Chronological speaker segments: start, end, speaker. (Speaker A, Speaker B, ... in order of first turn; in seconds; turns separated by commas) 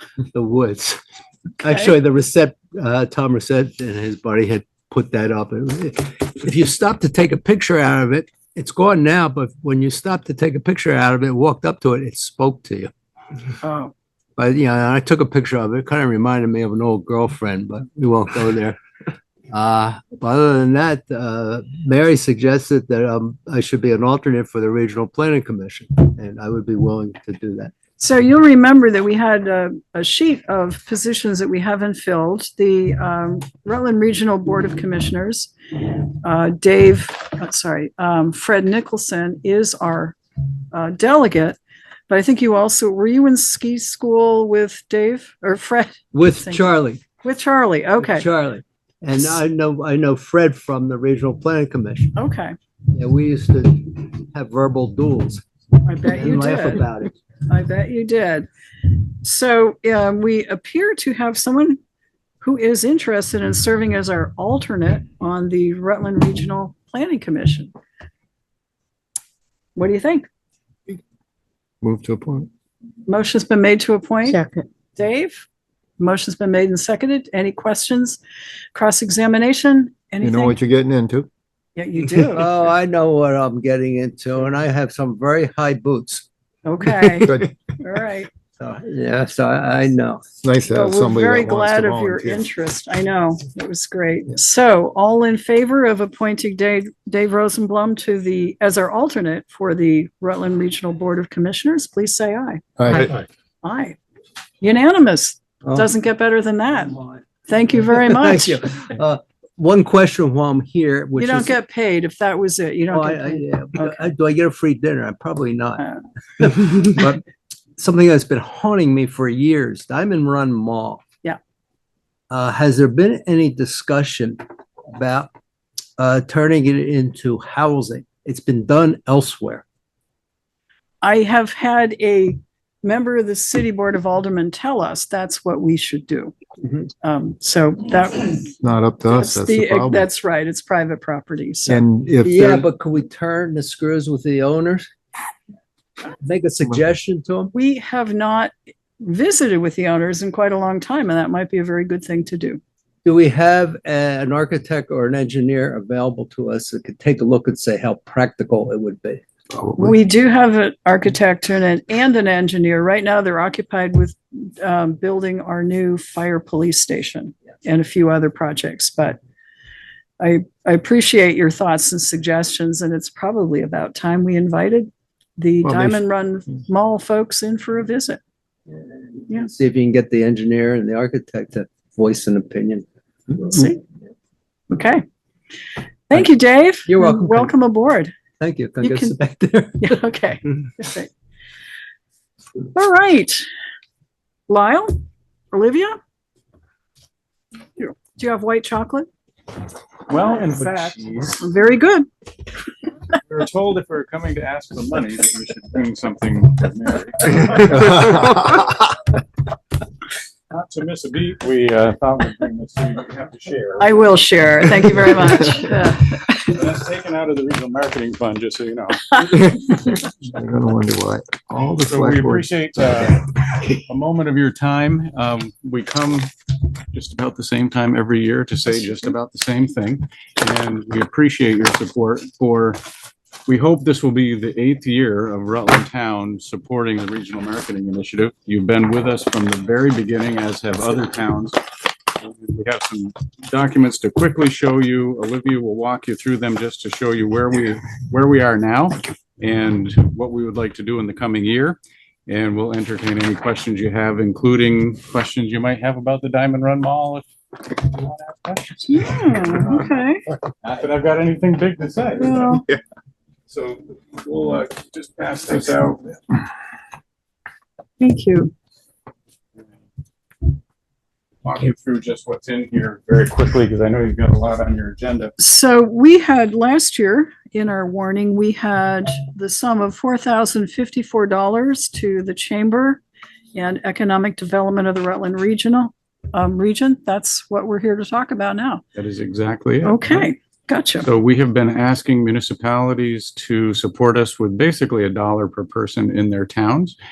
Speaker A: 0.3-1.0, Speaker A: 1.6-12.9, Speaker B: 13.6-13.9, Speaker A: 14.4-18.8, Speaker A: 19.5-27.7, Speaker B: 28.0-40.1, Speaker B: 40.7-41.6, Speaker B: 42.1-48.2, Speaker A: 46.1-47.0, Speaker A: 48.0-52.1, Speaker B: 52.1-52.5, Speaker A: 52.9-55.4, Speaker B: 55.8-56.9, Speaker A: 56.0-57.1, Speaker B: 57.5-61.8, Speaker B: 62.4-67.7, Speaker B: 69.8-70.3, Speaker C: 71.8-72.5, Speaker B: 73.0-74.4, Speaker B: 74.9-75.4, Speaker B: 76.0-78.2, Speaker B: 78.7-80.6, Speaker C: 80.2-81.3, Speaker B: 81.8-82.5, Speaker A: 82.3-86.2, Speaker B: 86.6-88.3, Speaker C: 87.2-87.5, Speaker A: 88.6-90.2, Speaker C: 90.4-92.4, Speaker B: 90.7-103.1, Speaker C: 102.8-103.2, Speaker B: 103.6-104.0, Speaker B: 104.6-108.6, Speaker A: 105.6-105.9, Speaker A: 106.9-107.2, Speaker A: 107.8-111.6, Speaker B: 111.2-114.0, Speaker A: 112.9-115.8, Speaker A: 116.4-117.2, Speaker A: 117.8-121.0, Speaker A: 122.3-125.3, Speaker A: 126.0-129.6, Speaker B: 131.0-136.3, Speaker B: 137.0-138.5, Speaker C: 138.6-140.0, Speaker B: 139.1-141.8, Speaker C: 141.7-142.7, Speaker A: 142.2-144.9, Speaker A: 146.2-147.5, Speaker B: 147.5-152.6, Speaker A: 153.0-159.2, Speaker C: 159.5-159.9, Speaker B: 159.8-169.2, Speaker B: 170.2-178.2, Speaker C: 175.6-176.0, Speaker A: 179.2-183.7, Speaker B: 184.7-185.0, Speaker B: 186.1-188.1, Speaker A: 186.8-187.5, Speaker A: 188.4-190.0, Speaker B: 188.8-189.1, Speaker B: 189.8-191.1, Speaker B: 192.7-193.4, Speaker B: 194.5-195.0, Speaker B: 195.5-196.0, Speaker B: 197.8-199.1, Speaker D: 200.1-201.5, Speaker B: 200.2-202.1, Speaker D: 203.1-208.9, Speaker D: 210.5-214.0, Speaker B: 213.8-216.5, Speaker D: 216.4-219.9, Speaker C: 220.3-222.5, Speaker D: 221.8-226.3, Speaker D: 226.9-232.8, Speaker D: 233.5-241.6, Speaker D: 242.1-259.0, Speaker B: 258.9-260.2, Speaker D: 259.6-259.8, Speaker D: 260.6-262.6, Speaker B: 262.2-262.6, Speaker D: 263.5-266.5, Speaker B: 268.0-268.5, Speaker D: 271.4-275.3, Speaker B: 275.4-283.0, Speaker B: 283.5-288.8, Speaker D: 288.9-290.3, Speaker B: 289.8-291.1, Speaker D: 291.0-296.9